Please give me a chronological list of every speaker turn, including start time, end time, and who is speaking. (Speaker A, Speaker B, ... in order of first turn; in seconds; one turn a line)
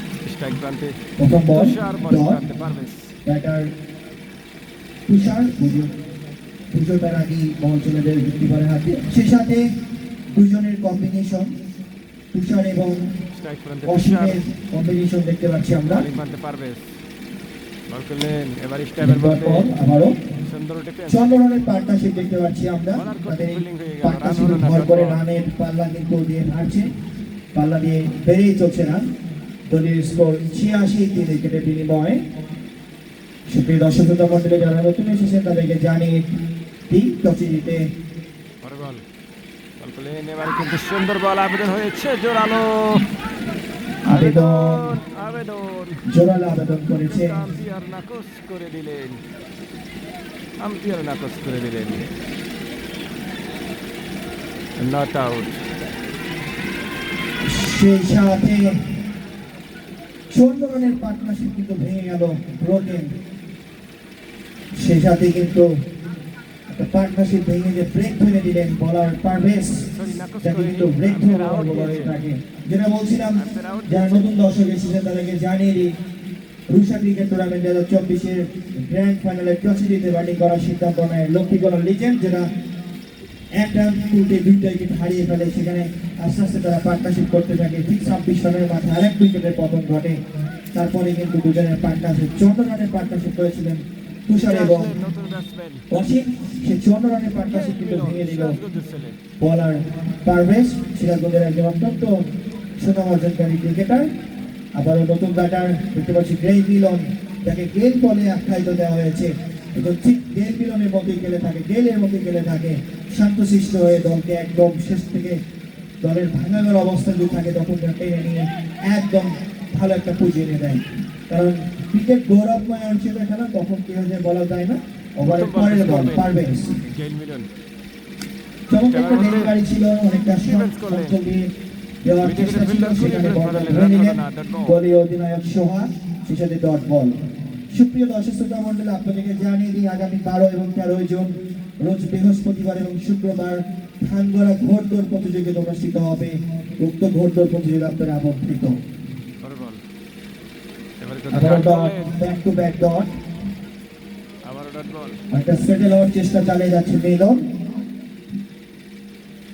Speaker A: 0.2-0.9
Speaker B: 1.2-2.4
Speaker A: 1.5-3.0
Speaker B: 3.2-3.7
Speaker B: 5.1-5.9
Speaker B: 6.7-9.7
Speaker B: 10.3-11.5
Speaker B: 12.3-13.1
Speaker A: 13.3-14.4
Speaker B: 13.8-16.1
Speaker A: 15.8-17.0
Speaker A: 17.9-19.7
Speaker B: 19.0-20.2
Speaker A: 20.4-21.3
Speaker B: 21.1-26.9
Speaker A: 22.9-25.2
Speaker B: 27.5-29.0
Speaker B: 29.7-32.2
Speaker B: 33.5-36.3
Speaker B: 36.9-37.9
Speaker A: 38.6-39.0
Speaker A: 39.8-43.0
Speaker A: 44.0-46.0
Speaker B: 44.1-44.8
Speaker B: 46.1-47.4
Speaker A: 47.0-49.2
Speaker A: 50.6-52.1
Speaker A: 54.8-55.6
Speaker B: 57.5-58.8
Speaker B: 60.3-63.1
Speaker B: 64.8-65.7
Speaker B: 66.7-69.9
Speaker A: 69.9-72.2
Speaker B: 70.4-76.0
Speaker A: 73.3-74.3
Speaker B: 76.7-82.5
Speaker B: 83.5-90.2
Speaker B: 90.7-94.9
Speaker A: 94.3-95.9
Speaker B: 95.9-98.6
Speaker A: 97.3-99.2
Speaker B: 99.4-104.1
Speaker B: 104.7-115.4
Speaker B: 116.0-126.8
Speaker A: 125.2-127.5
Speaker B: 128.7-131.5
Speaker A: 128.8-129.5
Speaker A: 130.1-131.2
Speaker B: 132.0-137.2
Speaker A: 132.2-134.8
Speaker B: 137.7-148.8
Speaker A: 149.4-149.8
Speaker A: 151.0-152.2
Speaker B: 151.3-153.1
Speaker A: 154.4-155.2
Speaker B: 155.3-157.5